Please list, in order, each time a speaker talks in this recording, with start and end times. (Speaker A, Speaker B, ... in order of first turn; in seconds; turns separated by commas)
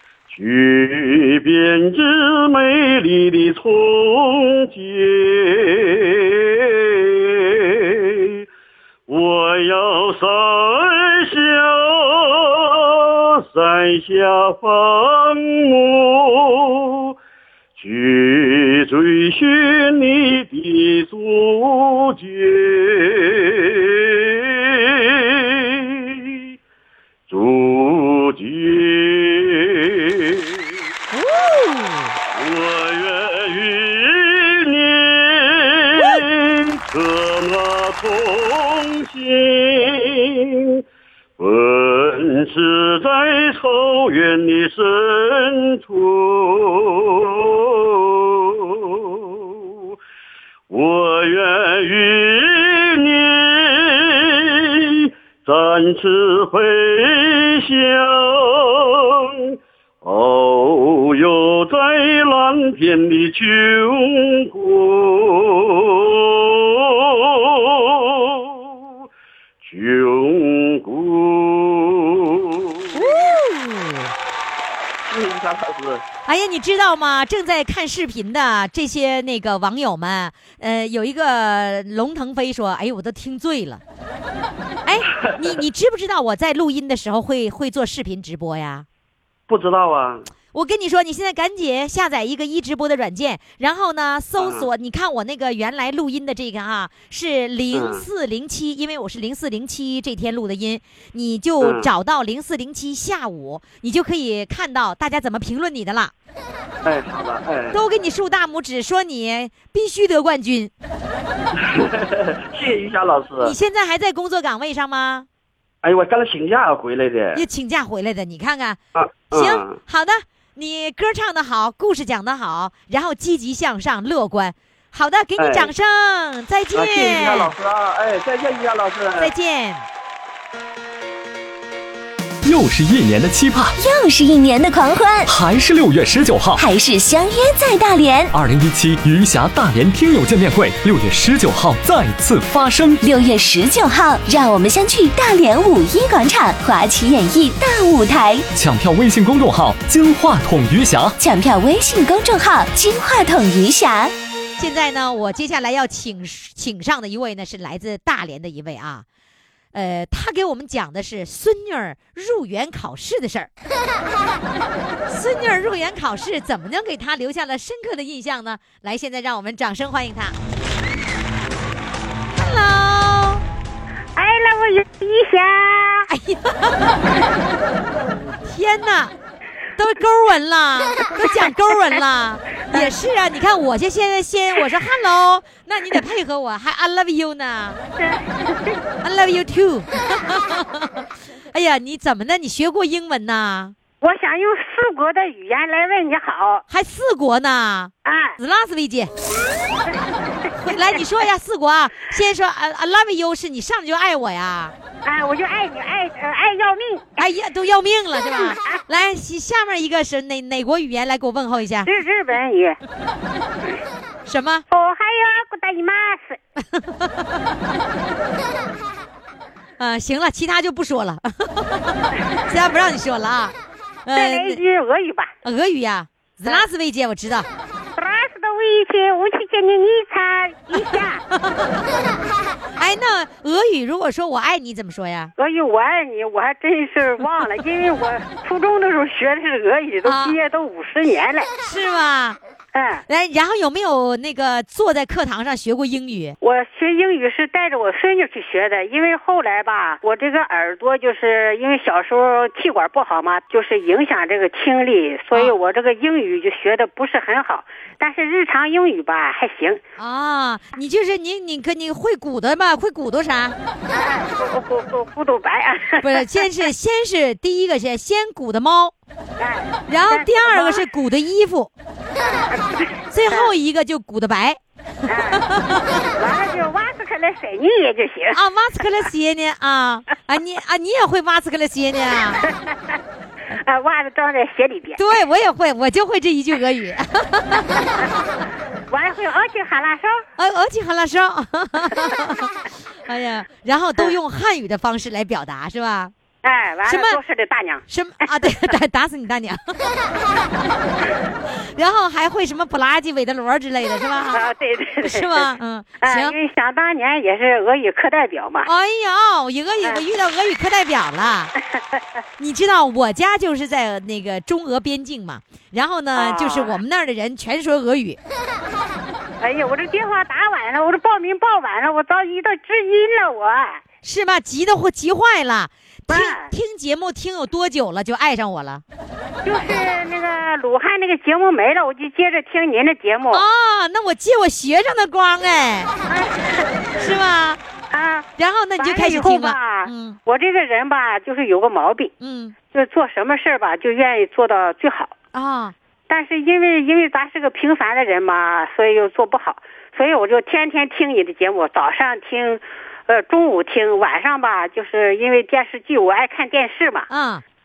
Speaker A: 0.3-8.4, Speaker A: 9.1-17.1, Speaker A: 17.8-26.4, Speaker A: 27.3-30.7, Speaker B: 31.1-32.2, Speaker A: 32.3-40.8, Speaker B: 36.0-36.2, Speaker A: 41.4-49.3, Speaker A: 50.7-68.6, Speaker A: 69.6-73.3, Speaker B: 72.9-74.1, Speaker A: 75.0-76.0, Speaker B: 76.3-83.8, Speaker B: 84.9-88.8, Speaker A: 89.5-90.3, Speaker B: 90.5-106.1, Speaker A: 94.4-94.7, Speaker A: 97.7-98.0, Speaker A: 101.6-101.9, Speaker A: 106.8-107.8, Speaker B: 107.7-110.7, Speaker A: 111.6-113.5, Speaker B: 113.4-115.3, Speaker A: 115.8-117.5, Speaker B: 117.3-118.8, Speaker A: 119.0-119.8, Speaker B: 119.3-127.5, Speaker A: 125.4-125.7, Speaker A: 126.7-129.3, Speaker B: 129.2-129.8, Speaker C: 132.4-133.7, Speaker D: 133.8-135.3, Speaker C: 135.3-136.6, Speaker D: 136.6-138.3, Speaker C: 138.3-143.0, Speaker D: 143.0-148.4, Speaker C: 148.6-151.2, Speaker D: 151.2-154.1, Speaker B: 154.6-159.1, Speaker B: 159.7-163.5, Speaker B: 165.1-170.3, Speaker B: 172.3-173.4, Speaker E: 174.2-176.1, Speaker B: 176.1-177.0, Speaker B: 178.4-179.1, Speaker B: 179.8-187.8, Speaker E: 181.0-181.3, Speaker E: 188.0-188.8, Speaker B: 189.0-191.0, Speaker B: 191.5-193.8, Speaker E: 194.0-196.6, Speaker B: 196.7-199.1, Speaker E: 198.1-198.4, Speaker E: 199.9-201.0, Speaker B: 200.5-204.7, Speaker E: 205.0-207.3, Speaker B: 207.2-211.9, Speaker E: 208.4-208.8, Speaker E: 211.9-212.8, Speaker B: 214.3-214.6, Speaker E: 214.7-216.4, Speaker B: 216.6-217.4, Speaker B: 219.8-223.5, Speaker B: 224.1-224.6, Speaker E: 224.2-225.3, Speaker B: 225.4-227.5, Speaker E: 228.0-231.2, Speaker B: 230.7-231.7, Speaker B: 232.8-235.3, Speaker E: 235.4-241.5, Speaker B: 240.1-240.4, Speaker B: 241.6-242.4, Speaker E: 242.7-243.0, Speaker B: 243.1-246.4, Speaker E: 246.4-259.8, Speaker B: 260.0-263.6, Speaker E: 263.9-266.2, Speaker B: 266.0-268.9, Speaker E: 269.4-270.9, Speaker B: 269.9-271.7, Speaker E: 272.2-273.5, Speaker B: 273.1-274.6, Speaker E: 275.1-275.4, Speaker B: 275.1-276.0, Speaker E: 276.2-278.4, Speaker B: 278.3-282.4, Speaker E: 282.4-283.0, Speaker E: 283.5-285.0, Speaker B: 285.0-287.9, Speaker E: 287.7-288.1, Speaker E: 288.9-290.2, Speaker B: 290.4-292.5, Speaker B: 293.1-296.1, Speaker E: 296.4-297.8, Speaker B: 296.9-297.2, Speaker B: 297.9-299.9, Speaker B: 301.8-304.5, Speaker E: 304.3-305.5, Speaker B: 305.0-306.4, Speaker E: 306.0-308.7, Speaker B: 308.6-311.5, Speaker E: 311.8-312.0, Speaker B: 312.4-318.2, Speaker E: 316.2-316.8, Speaker E: 319.4-323.8, Speaker B: 324.0-328.8, Speaker E: 326.1-326.5, Speaker E: 329.4-333.4, Speaker B: 333.3-335.9, Speaker E: 336.1-336.9, Speaker B: 337.0-337.6, Speaker E: 337.9-338.3, Speaker B: 338.4-340.2, Speaker E: 338.8-342.1, Speaker B: 342.2-342.6, Speaker E: 342.7-345.1, Speaker B: 345.3-345.7, Speaker E: 346.1-357.1, Speaker B: 357.1-357.4